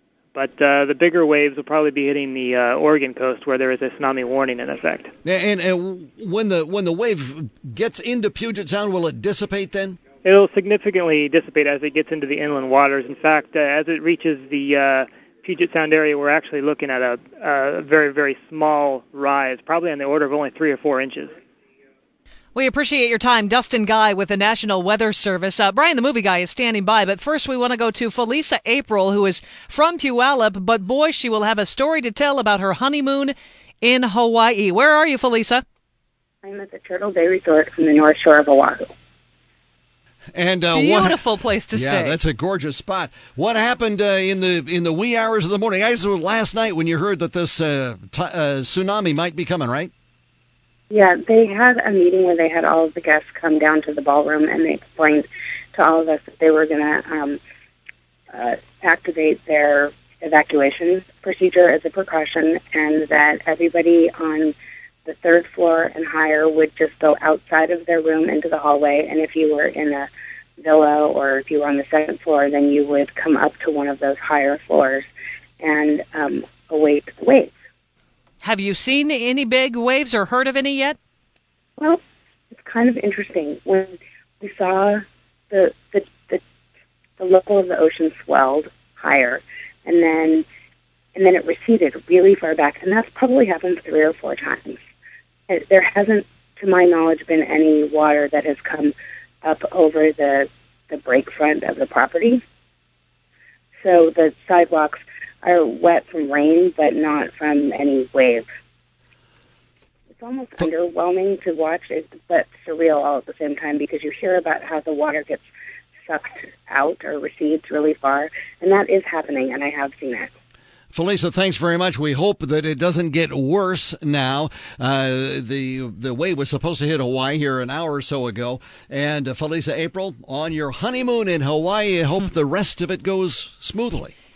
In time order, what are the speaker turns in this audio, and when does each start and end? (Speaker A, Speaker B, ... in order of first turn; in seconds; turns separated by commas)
Speaker A: 0.3-5.1, Speaker B: 5.2-10.0, Speaker A: 10.2-21.3, Speaker C: 22.6-35.6, Speaker D: 36.4-38.9, Speaker B: 40.3-49.9, Speaker C: 40.7-42.2, Speaker D: 50.9-57.4, Speaker D: 58.3-70.1, Speaker D: 70.6-75.1, Speaker D: 75.6-77.5, Speaker C: 78.4-81.0, Speaker D: 82.5-86.4, Speaker D: 87.2-90.5, Speaker D: 91.2-94.8, Speaker D: 95.5-102.4, Speaker D: 103.8-108.5, Speaker D: 110.2-115.5, Speaker D: 116.1-120.3, Speaker B: 120.9-134.1